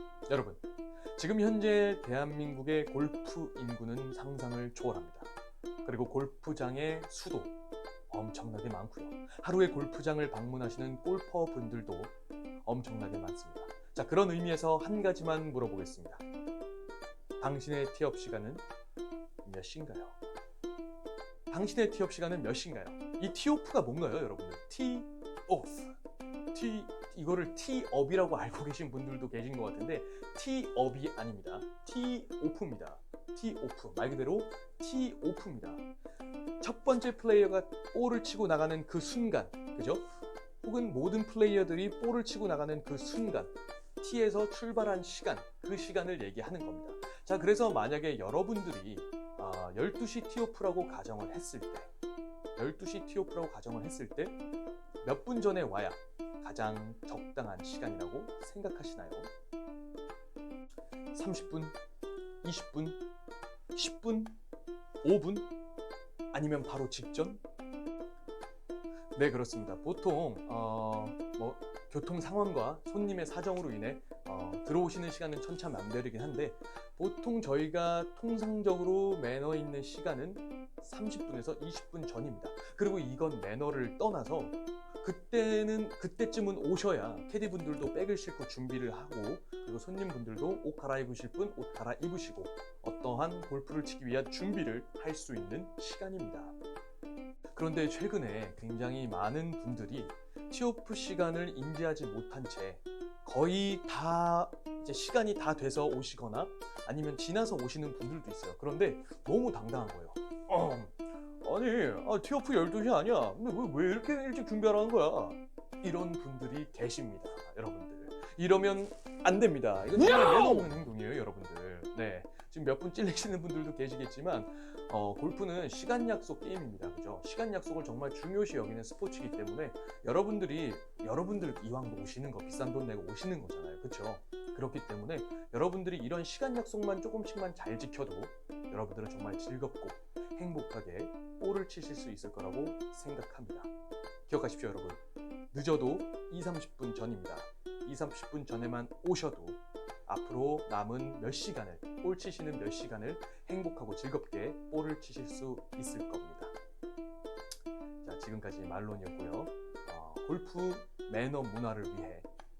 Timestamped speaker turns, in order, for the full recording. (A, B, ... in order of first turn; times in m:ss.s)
0:00.3-0:00.6 A
0:01.1-0:05.3 A
0:05.8-0:07.5 A
0:08.1-0:12.1 A
0:12.6-0:16.2 A
0:17.4-0:18.6 A
0:19.4-0:20.2 A
0:21.5-0:25.9 A
0:26.5-0:35.8 A
0:36.6-0:40.0 A
0:40.6-0:51.9 A
0:52.6-0:54.4 A
0:55.0-0:59.3 A
1:01.1-1:01.8 A
1:02.4-1:03.0 A
1:03.7-1:04.4 A
1:05.0-1:05.5 A
1:06.3-1:07.4 A
1:09.1-1:36.5 A
1:37.5-2:23.7 A
2:24.3-2:25.0 A
2:25.5-2:36.5 A
2:38.0-2:42.3 A